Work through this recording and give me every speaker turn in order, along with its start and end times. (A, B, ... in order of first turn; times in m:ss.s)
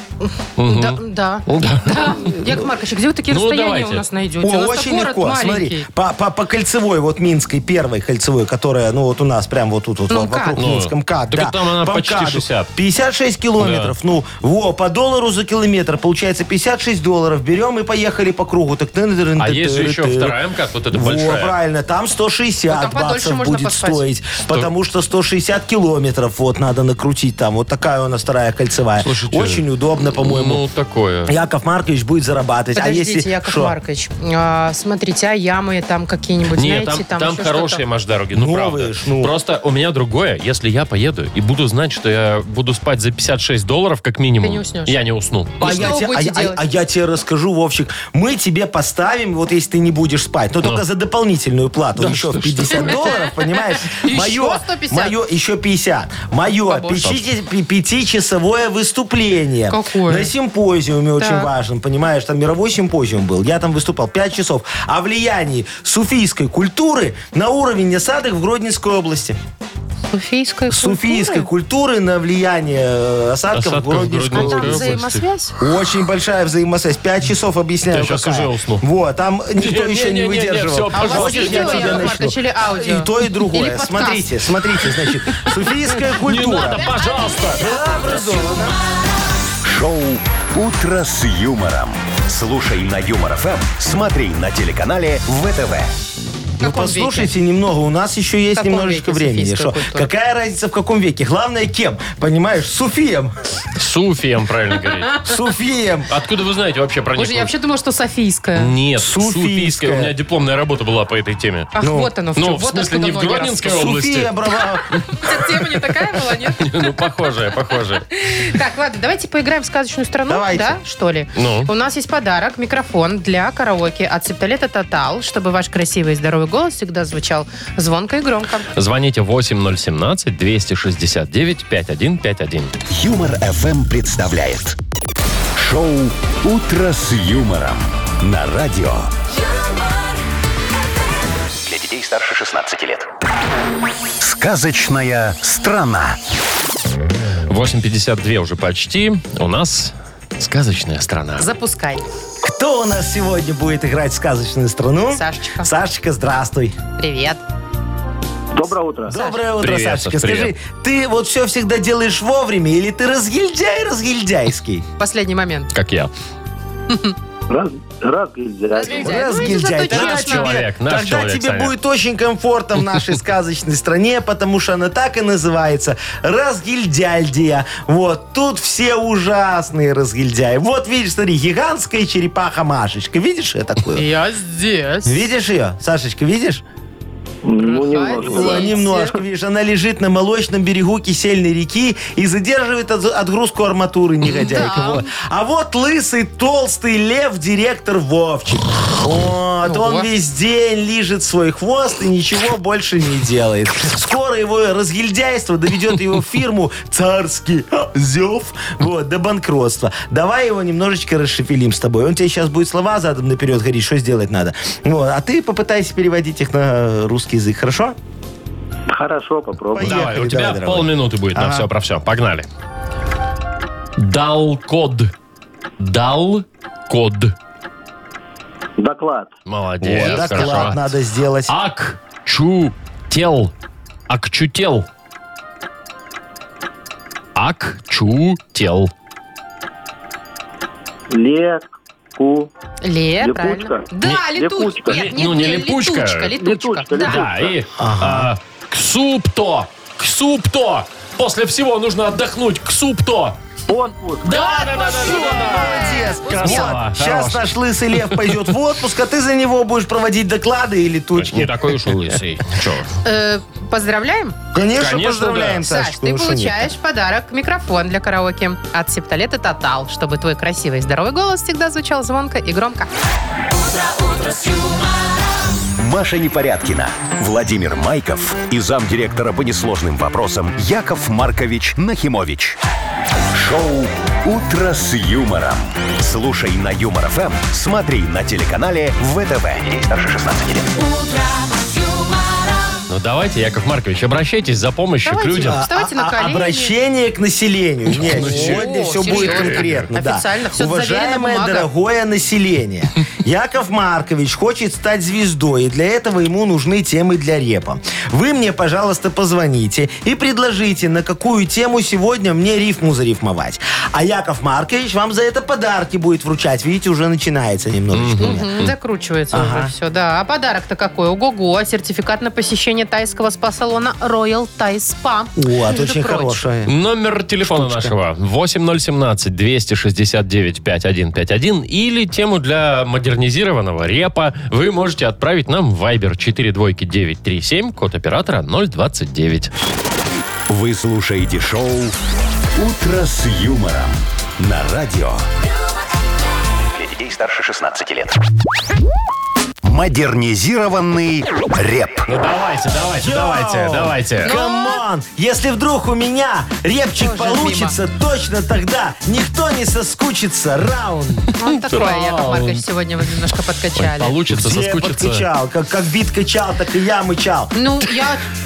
0:00.2-0:05.9 A
0:00.6-0:02.3 B
0:03.3-0:04.0 B
0:04.4-0:20.4 C
0:10.1-0:10.6 A
0:10.6-0:12.7 B
0:13.6-0:13.9 B
0:19.4-0:21.5 B
0:20.9-0:30.6 C
0:22.7-0:24.1 A
0:29.0-0:31.3 B
0:31.2-0:33.8 C
0:32.7-0:37.8 A
0:36.6-0:45.9 B
0:38.3-0:39.3 C
0:44.4-0:45.0 A
0:45.6-0:46.6 A
0:45.6-1:09.4 C
0:52.0-0:53.1 B
0:52.7-0:55.1 A
0:56.7-0:57.1 A
0:59.7-1:00.3 A
1:01.2-1:01.5 A
1:10.1-1:11.5 A
1:10.7-1:15.0 C
1:13.5-1:15.2 B
1:14.3-1:15.6 A
1:15.6-1:26.9 C
1:17.9-1:18.8 B
1:19.6-1:22.2 B
1:20.9-1:24.3 A
1:26.1-1:27.6 B
1:27.0-1:27.4 A
1:27.5-1:28.8 C
1:29.6-1:35.9 D
1:36.6-1:43.3 C
1:36.6-1:37.3 A
1:38.5-1:40.1 A
1:43.8-1:45.2 B
1:45.2-1:46.1 C
1:46.1-1:47.5 B
1:47.2-1:48.7 A
1:48.6-1:51.7 B
1:49.0-1:50.1 C
1:51.8-1:53.6 A
1:51.8-1:52.1 C
1:52.4-1:54.3 B
1:53.6-1:55.0 C
1:55.1-1:56.8 A
1:56.6-1:58.0 B
1:58.1-2:08.7 A
2:00.3-2:00.8 C
2:01.3-2:01.7 B
2:08.7-2:12.7 B
2:12.9-2:14.8 D
2:15.6-2:19.1 D
2:21.6-2:23.1 D
2:24.2-2:26.2 D
2:27.5-2:31.5 B
2:31.4-2:32.0 A
2:32.4-2:36.8 C
2:35.1-2:35.7 A
2:37.0-2:37.4 A
2:38.5-2:39.3 E
2:39.1-2:44.8 C
2:39.6-2:40.5 B
2:45.0-2:45.7 A
2:45.7-2:46.1 B
2:46.9-2:47.1 A
2:47.5-2:49.2 E
2:48.7-2:50.6 A
2:48.9-3:04.0 C
2:49.9-2:51.7 B
3:03.9-3:05.2 A
3:05.0-3:06.6 C
3:07.4-3:08.9 E
3:07.6-3:09.2 A
3:08.2-3:38.0 C
3:14.3-3:15.1 A
3:19.6-3:20.1 A
3:38.9-3:40.0 E
3:39.7-3:41.7 C
3:39.8-3:42.5 B
3:44.0-3:45.1 B
3:45.8-3:47.3 B
3:48.8-3:49.3 E
3:49.5-3:50.9 B
3:49.8-3:51.5 C
3:50.0-3:50.6 A
3:51.5-3:53.5 B
3:54.1-3:54.9 B
3:57.4-3:58.9 B
4:01.1-4:02.5 E
4:02.8-4:07.3 A
4:03.2-4:05.1 E
4:04.9-4:06.3 B
4:06.4-4:07.6 E
4:06.9-4:13.4 B
4:07.8-4:08.3 C
4:13.7-4:14.3 E
4:14.2-4:18.4 B
4:14.2-4:21.6 C
4:14.6-4:16.7 A
4:21.2-4:22.9 B
4:23.0-4:24.4 A
4:24.5-4:26.7 C
4:24.8-4:25.6 B
4:25.6-4:32.9 A
4:35.8-4:42.6 D
4:43.3-4:50.7 D
4:52.9-4:55.6 B
4:55.0-4:56.7 A
4:55.4-5:18.5 C
4:57.9-4:59.9 B
4:58.1-5:01.7 A
5:17.9-5:18.7 B
5:18.2-5:26.4 A
5:19.3-5:19.7 C
5:25.4-5:26.7 C
5:26.6-5:39.5 B
5:27.4-5:27.9 C
5:40.5-5:41.9 D
5:42.6-5:45.2 D
5:46.7-5:48.2 D
5:49.6-5:52.1 D
5:52.1-5:54.3 B
5:53.0-6:01.3 C
5:54.2-5:54.8 A
5:57.0-5:57.8 A
6:01.4-6:04.1 A
6:01.4-6:02.6 B
6:03.8-6:05.2 B
6:04.3-6:07.5 C
6:07.5-6:08.2 A